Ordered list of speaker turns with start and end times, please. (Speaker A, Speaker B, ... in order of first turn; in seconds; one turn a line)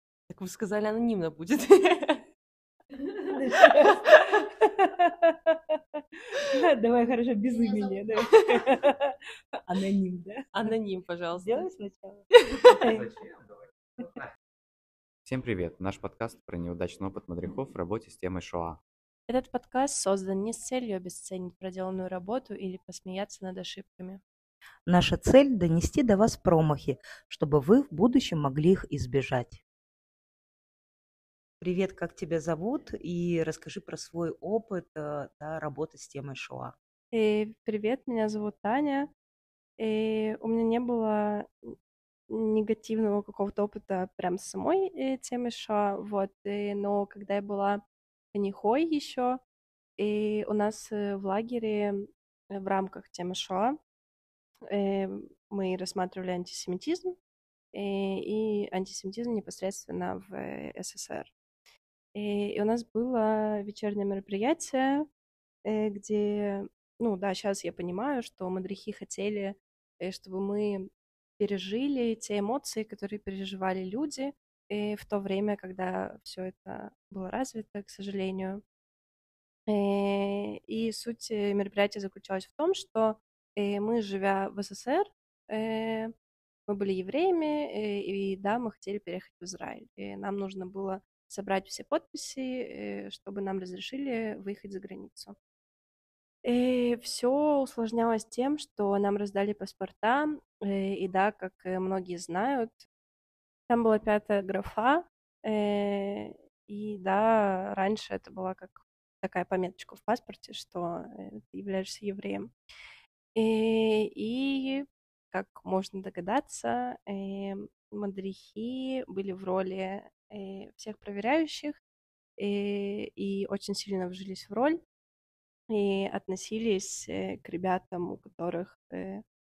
Speaker A: 0.3-2.2
Speaker B: 3.3-5.8
Speaker B: 6.4-9.1
Speaker B: 9.7-10.7
Speaker A: 10.5-11.6
Speaker B: 11.4-12.2
Speaker B: 12.8-13.1
Speaker C: 15.2-18.8
Speaker D: 19.3-24.2
Speaker B: 24.9-29.6
Speaker B: 31.6-36.8
Speaker D: 37.1-39.1
Speaker D: 39.8-41.7
Speaker D: 42.3-47.8
Speaker D: 48.3-49.4
Speaker D: 50.0-53.8
Speaker D: 54.6-57.2
Speaker D: 57.7-61.3
Speaker D: 62.1-65.1
Speaker D: 65.6-78.6
Speaker D: 79.7-86.1
Speaker D: 86.7-95.3
Speaker D: 96.4-102.8
Speaker D: 103.7-112.5
Speaker D: 113.3-121.8
Speaker D: 122.4-124.8
Speaker D: 125.7-129.2